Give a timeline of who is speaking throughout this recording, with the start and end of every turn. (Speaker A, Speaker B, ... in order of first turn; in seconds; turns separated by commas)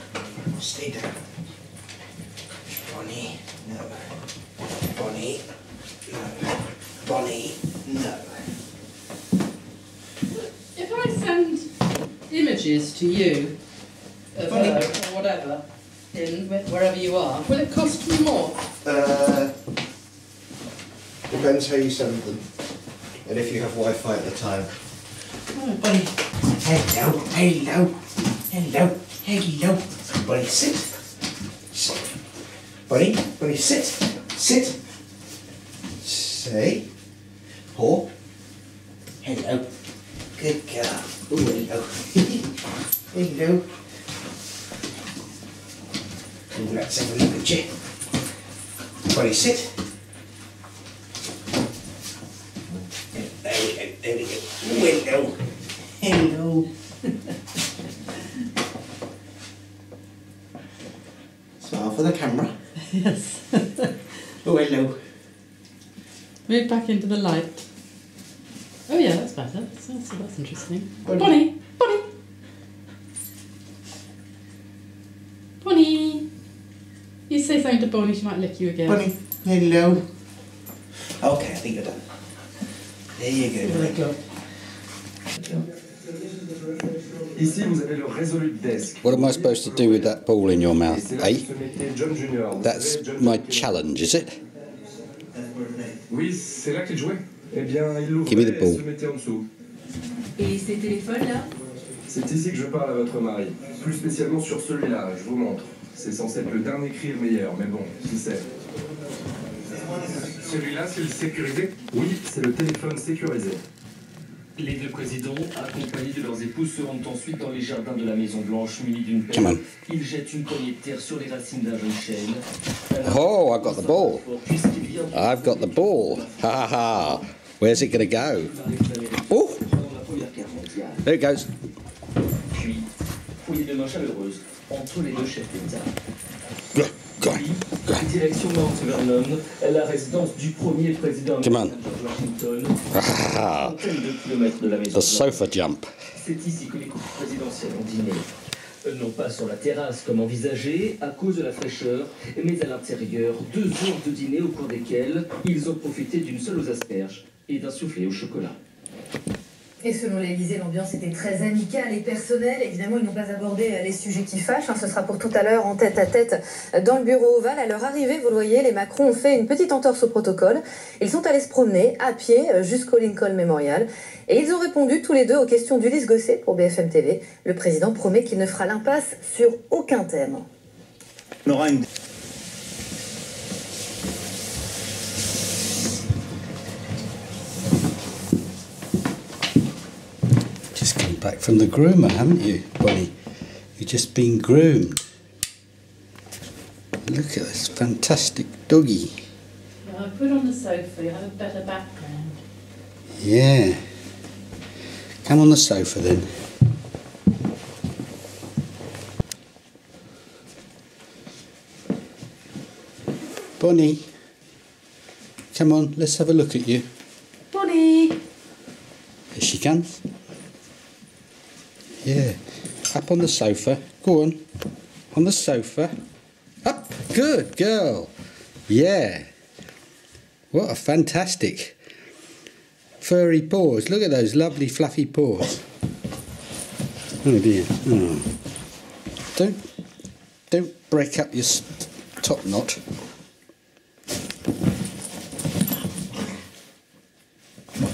Speaker A: 0.2-1.2, Speaker A: 2.7-4.1, Speaker A: 4.9-5.5, Speaker A: 6.1-8.4, Speaker B: 10.7-11.7, Speaker B: 12.3-13.6, Speaker B: 14.3-18.6, Speaker A: 14.4-14.9, Speaker A: 18.8-19.6, Speaker A: 21.3-22.4, Speaker A: 23.2-24.7, Speaker A: 25.6-30.9, Speaker A: 31.7-32.1, Speaker A: 32.9-34.8, Speaker A: 36.0-36.9, Speaker A: 37.7-38.1, Speaker A: 39.2-39.7, Speaker A: 40.4-42.5, Speaker A: 43.1-43.8, Speaker A: 46.5-47.7, Speaker A: 49.1-49.8, Speaker A: 53.1-55.4, Speaker A: 56.0-56.7, Speaker A: 61.6-62.6, Speaker B: 62.9-63.9, Speaker A: 64.4-65.0, Speaker B: 66.5-67.6, Speaker B: 68.9-72.0, Speaker A: 71.0-71.3, Speaker B: 75.6-76.2, Speaker B: 77.3-79.0, Speaker A: 78.9-80.0, Speaker A: 81.2-82.0, Speaker A: 83.2-84.1, Speaker B: 83.6-84.1, Speaker C: 87.3-90.2, Speaker D: 89.0-91.5, Speaker C: 90.8-93.8, Speaker D: 92.6-94.3, Speaker C: 96.1-99.5, Speaker D: 98.3-98.8, Speaker B: 100.4-101.4, Speaker C: 102.1-108.4, Speaker C: 110.0-113.6, Speaker E: 114.6-131.1, Speaker D: 119.3-119.6, Speaker D: 123.0-124.2, Speaker D: 125.1-128.5, Speaker D: 129.3-129.6, Speaker D: 131.0-131.5, Speaker E: 132.5-132.9, Speaker E: 133.4-135.9, Speaker D: 136.7-138.0, Speaker E: 137.2-145.4, Speaker D: 141.4-141.7, Speaker D: 142.9-143.7, Speaker D: 144.9-145.9, Speaker E: 146.2-148.3, Speaker E: 148.8-158.6, Speaker F: 159.8-180.4, Speaker D: 190.8-193.1, Speaker D: 193.8-195.0, Speaker D: 197.1-199.1, Speaker B: 199.8-202.4, Speaker D: 203.2-203.8, Speaker D: 205.2-206.3, Speaker D: 213.6-214.0, Speaker D: 215.5-216.8, Speaker B: 217.5-218.2, Speaker D: 219.3-219.9, Speaker D: 222.0-222.4, Speaker D: 222.9-224.4, Speaker D: 225.1-225.9, Speaker D: 226.7-228.1, Speaker D: 228.7-229.2, Speaker D: 230.5-231.8, Speaker D: 233.0-235.6, Speaker D: 237.2-238.3, Speaker D: 240.5-241.7, Speaker D: 242.2-242.8